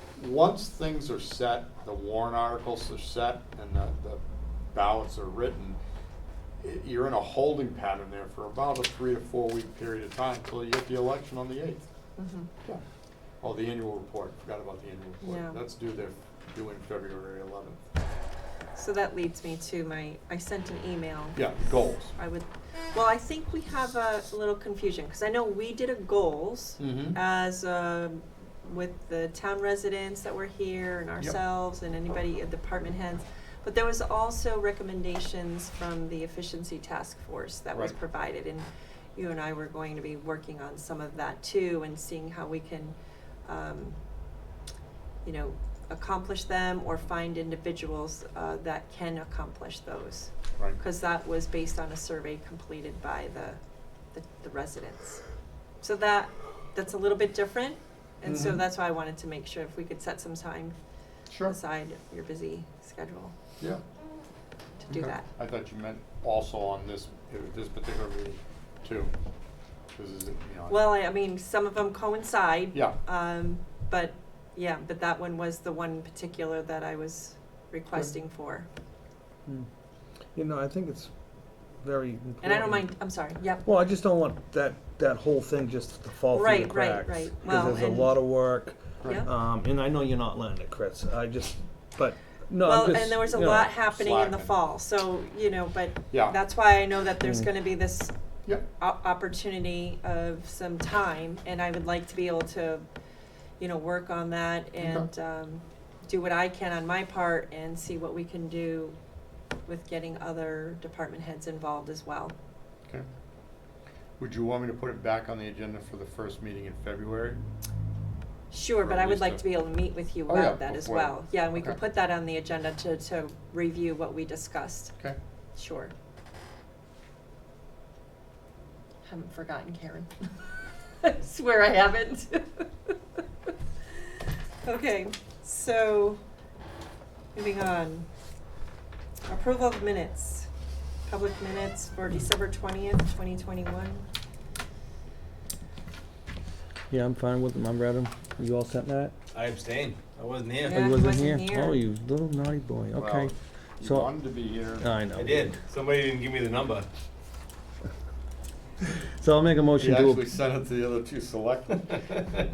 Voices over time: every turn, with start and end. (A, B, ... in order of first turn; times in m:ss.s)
0:00.2-0:04.2 A
0:04.7-0:05.8 A
0:06.6-0:11.9 A
0:12.2-0:12.5 B
0:13.4-0:17.8 A
0:15.2-0:15.6 B
0:18.8-0:21.5 B
0:21.4-0:22.1 A
0:22.0-0:43.0 B
0:26.8-0:27.2 A
0:43.4-0:44.0 B
0:45.2-0:53.6 B
0:54.1-0:55.2 B
0:55.8-1:00.8 B
0:58.3-0:58.6 A
1:01.3-1:01.6 A
1:01.5-1:03.3 B
1:04.9-1:05.3 B
1:04.9-1:09.1 A
1:10.0-1:10.8 A
1:10.7-1:18.7 B
1:20.3-1:21.1 C
1:21.8-1:22.9 C
1:22.4-1:23.6 B
1:23.6-1:33.7 C
1:26.3-1:28.2 B
1:32.6-1:38.1 B
1:33.9-1:34.5 A
1:36.1-1:36.4 A
1:38.8-1:42.8 B
1:43.6-1:49.0 B
1:44.8-1:45.1 A
1:49.7-1:52.3 B
1:54.2-1:57.4 A
1:58.5-2:05.0 B
1:58.8-1:59.4 A
2:00.3-2:01.8 A
2:05.6-2:05.9 B
2:09.1-2:10.2 B
2:11.0-2:12.9 B
2:14.6-2:16.2 B
2:17.3-2:18.1 B
2:19.3-2:20.5 B
2:21.1-2:24.0 B
2:26.9-2:29.1 C
2:29.3-2:30.8 D
2:30.7-2:31.8 B
2:30.7-2:34.1 C
2:32.9-2:34.9 A
2:34.8-2:35.5 C
2:35.1-2:36.9 D
2:39.2-2:40.2 C
2:39.8-2:42.4 A